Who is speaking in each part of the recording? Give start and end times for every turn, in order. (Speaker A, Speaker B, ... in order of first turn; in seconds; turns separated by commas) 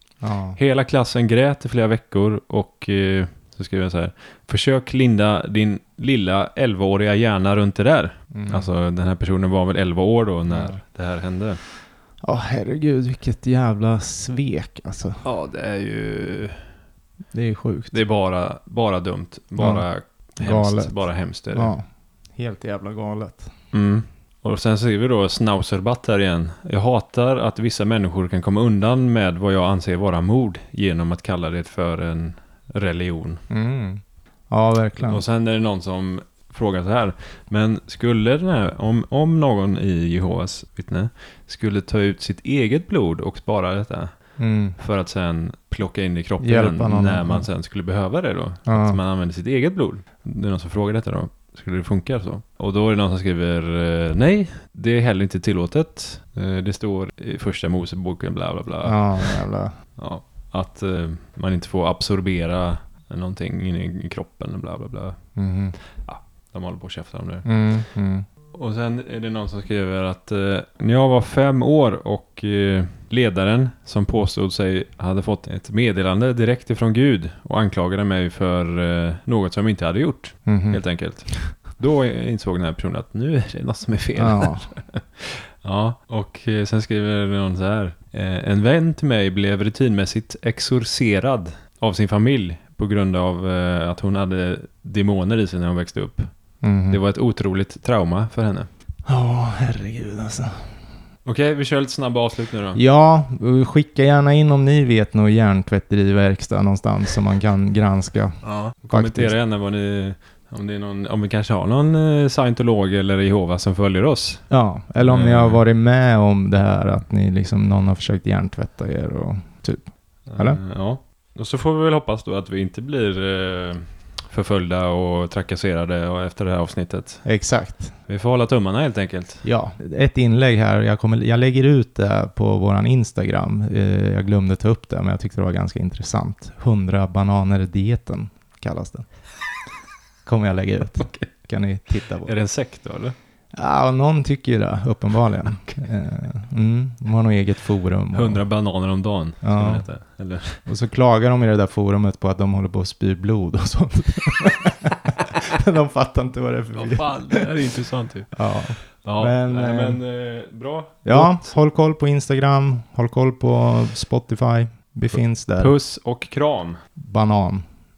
Speaker A: 0.2-0.6, Speaker B: 0.6-11.6, Speaker A: 8.3-8.7, Speaker A: 10.5-10.8, Speaker A: 12.2-15.2, Speaker B: 15.2-16.7, Speaker A: 17.3-18.0, Speaker B: 17.9-21.7, Speaker A: 19.6-19.9, Speaker A: 20.4-23.5, Speaker B: 23.7-33.4, Speaker A: 33.5-35.2, Speaker B: 35.1-44.1, Speaker A: 44.4-44.8, Speaker B: 44.8-59.4, Speaker A: 46.4-47.5, Speaker A: 48.6-49.0, Speaker A: 58.8-59.7, Speaker B: 60.0-65.2, Speaker A: 65.3-65.8, Speaker B: 65.8-67.5, Speaker A: 67.4-68.2, Speaker B: 68.5-96.3, Speaker A: 80.5-80.8, Speaker A: 84.2-84.7, Speaker A: 96.6-97.0, Speaker B: 96.9-98.7, Speaker A: 99.0-100.7, Speaker B: 101.2-102.8, Speaker A: 102.7-109.3, Speaker B: 108.4-114.5, Speaker A: 114.5-120.6, Speaker B: 115.0-115.6, Speaker B: 120.3-127.2, Speaker A: 127.2-127.9, Speaker B: 128.1-129.4, Speaker A: 129.4-139.1, Speaker A: 140.2-142.3, Speaker B: 142.2-143.1, Speaker A: 143.5-148.4, Speaker B: 148.1-150.6, Speaker A: 149.4-149.9, Speaker A: 150.6-157.5, Speaker B: 156.7-158.4, Speaker A: 158.3-160.0, Speaker B: 158.9-161.5, Speaker A: 161.0-165.7, Speaker B: 165.1-166.8, Speaker A: 167.0-167.6